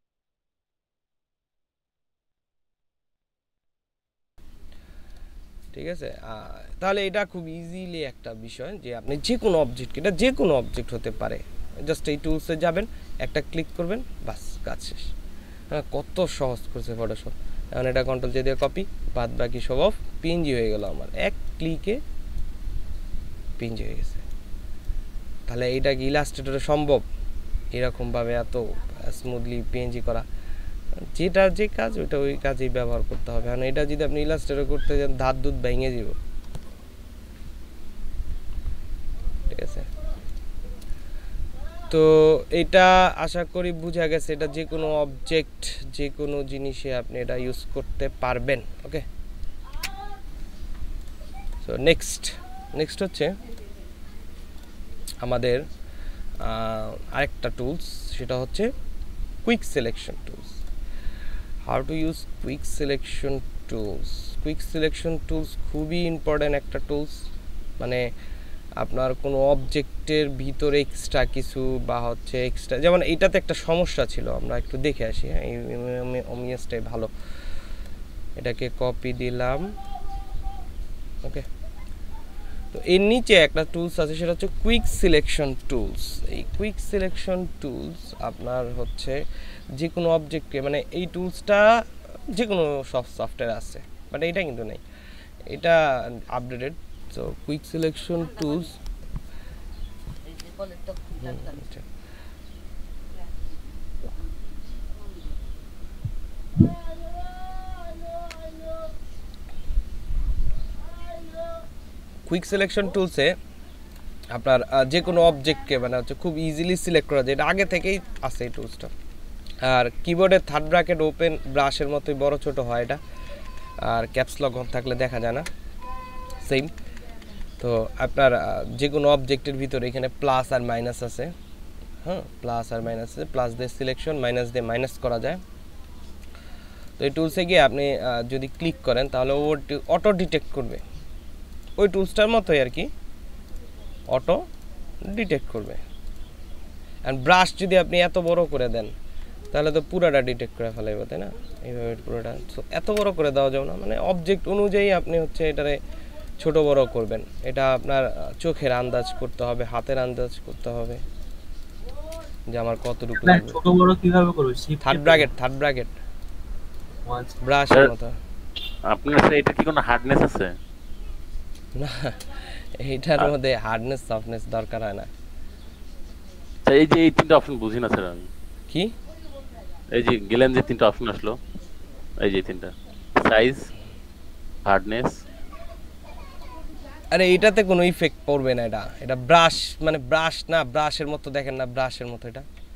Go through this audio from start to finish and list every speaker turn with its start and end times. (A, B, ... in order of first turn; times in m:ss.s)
0:05.7-0:15.1 A
0:15.7-0:22.0 A
0:23.6-0:24.2 A
0:25.5-0:27.0 A
0:27.7-0:30.2 A
0:31.1-0:36.2 A
0:39.5-0:39.9 A
0:41.9-0:49.0 A
0:51.6-0:53.3 A
0:55.2-0:55.6 A
0:56.4-0:58.7 A
0:59.4-1:00.6 A
1:01.6-1:07.3 A
1:08.8-1:17.1 A
1:18.4-1:19.6 A
1:22.7-1:29.2 A
1:29.8-1:34.8 A
1:35.5-1:38.8 A
1:41.2-1:41.8 A
1:52.3-1:53.4 A
1:54.3-1:58.9 A
1:59.6-2:03.0 A
2:03.8-2:05.5 A
2:06.4-2:06.7 A
2:07.6-2:11.3 A
2:12.0-2:15.4 A
2:17.0-2:20.8 A
2:21.8-2:22.9 A
2:24.1-2:24.4 A
2:25.1-2:25.8 A
2:27.0-2:28.9 A
2:29.5-2:35.8 A
2:36.4-2:41.0 A
2:42.5-2:43.6 A
2:43.2-2:45.3 B
2:44.8-2:45.9 A
2:47.1-2:47.4 B
2:47.4-2:48.2 A
2:48.9-2:50.6 C
2:51.8-2:55.1 A
2:56.6-2:58.3 C
2:59.9-3:01.4 C
3:02.2-3:03.6 C
3:04.6-3:05.1 C
3:07.1-3:12.4 A